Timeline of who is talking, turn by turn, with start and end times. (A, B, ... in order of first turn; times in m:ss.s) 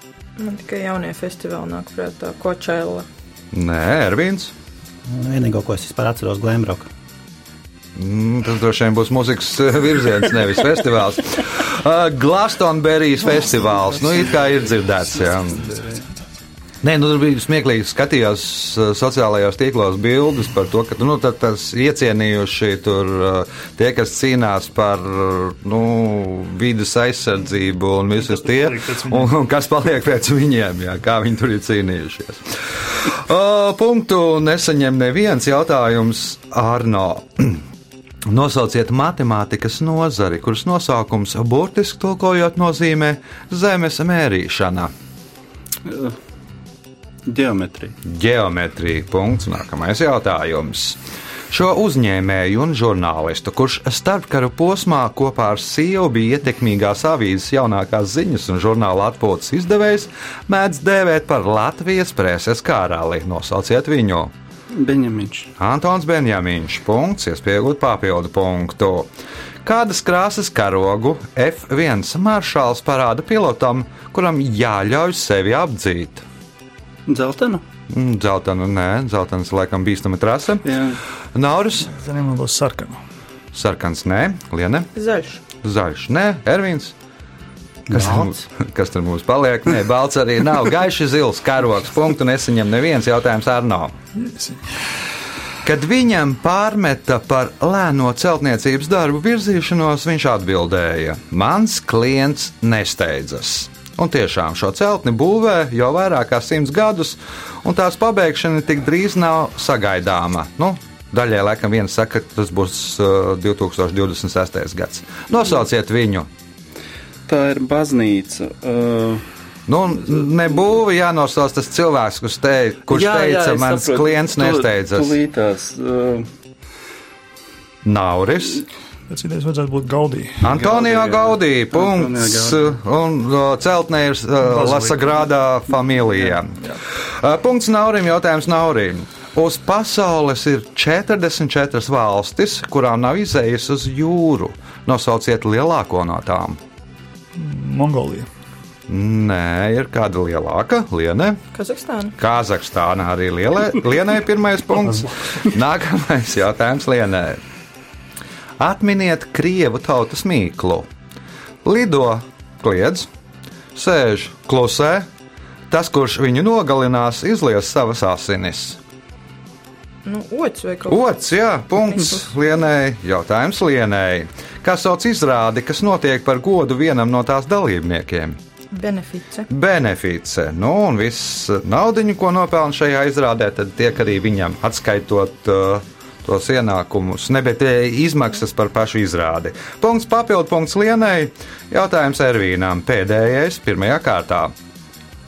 0:00.4-0:03.1 A
0:03.5-0:04.5 B
0:05.1-0:06.9 C
0:08.0-0:15.7 B
0:14.0-0:14.4 D
0:15.5-0:16.1 D
0:16.8-0:37.6 B
0:28.2-0:29.3 E
0:38.3-0:44.9 B
0:45.8-0:46.2 D
0:47.3-0:48.0 D
0:48.0-0:51.0 B
0:51.5-1:04.3 B
1:04.7-1:05.5 D
1:05.6-1:09.1 B
1:09.6-1:16.2 B
1:17.1-1:17.6 D
1:17.9-1:20.6 B
1:20.6-1:21.0 D
1:21.3-1:21.9 B
1:21.9-1:23.0 E
1:23.5-1:24.9 B
1:25.0-1:25.4 A
1:25.6-1:26.9 B
1:27.9-1:28.4 C
1:27.9-1:34.0 B
1:34.2-1:35.0 E
1:35.6-1:56.3 B
1:57.3-1:59.2 D
1:59.7-2:05.2 B
2:02.9-2:06.3 D
2:07.8-2:08.7 B
2:09.1-2:10.5 E
2:10.4-2:26.6 B
2:10.4-2:12.8 D
2:14.4-2:15.3 E
2:27.4-2:28.3 E
2:28.9-2:31.4 B
2:31.5-2:32.2 A
2:32.2-2:37.4 B
2:35.0-2:35.3 E
2:38.6-2:40.9 B
2:41.6-2:43.1 B
2:43.8-2:45.1 B
2:45.7-2:48.8 B
2:50.0-2:51.1 A
2:50.9-2:58.4 B
2:58.7-2:59.5 A
2:59.5-3:14.5 B